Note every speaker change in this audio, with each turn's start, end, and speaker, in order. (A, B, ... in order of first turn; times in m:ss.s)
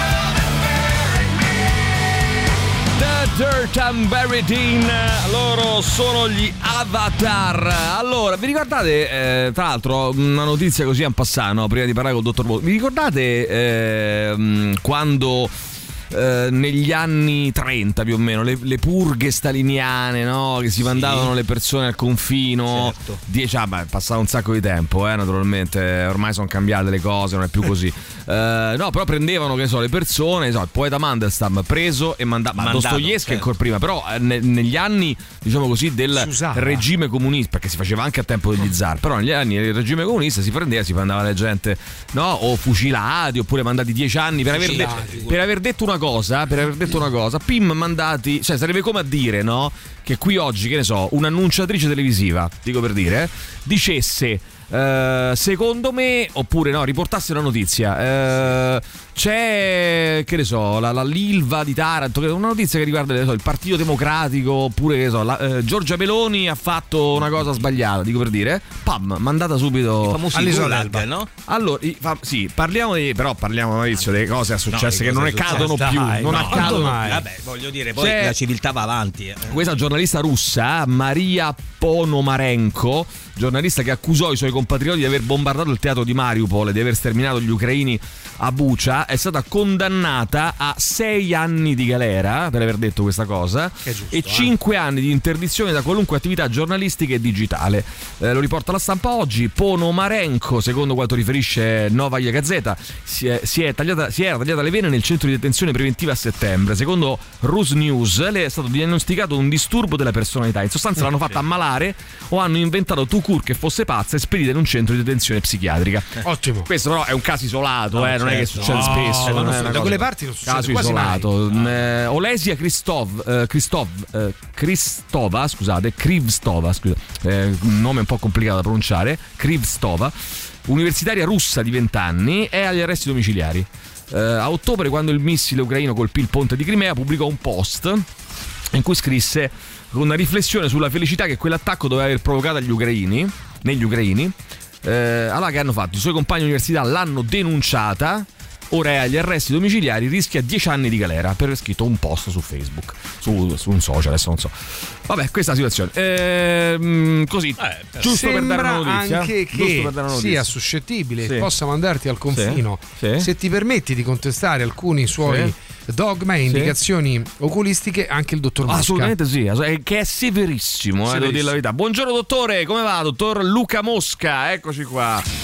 0:03.0-0:15.6 A
0:16.1-1:10.2 A
0:20.8-0:21.3 B
0:22.7-0:23.2 B
0:32.6-0:33.5 B
0:36.2-0:36.9 C
0:44.5-0:45.4 B
0:44.6-0:45.2 C
1:10.0-1:11.3 B
1:10.3-1:11.1 C
1:11.5-1:17.2 A
1:14.7-1:19.6 B
1:15.5-1:17.2 C
1:18.0-1:18.4 A
1:19.5-1:56.1 A
1:33.8-1:34.5 C
1:56.2-1:56.7 C
1:56.7-2:18.1 A
1:57.9-2:00.0 B
1:58.6-2:01.3 C
2:01.5-2:01.8 B
2:18.7-2:40.5 A
2:37.6-2:38.0 B
2:38.0-2:49.2 C
2:41.2-2:41.5 A
2:42.3-2:43.3 A
2:45.2-2:45.5 A
2:46.5-2:46.8 A
2:48.7-2:55.3 A
2:51.1-2:51.6 C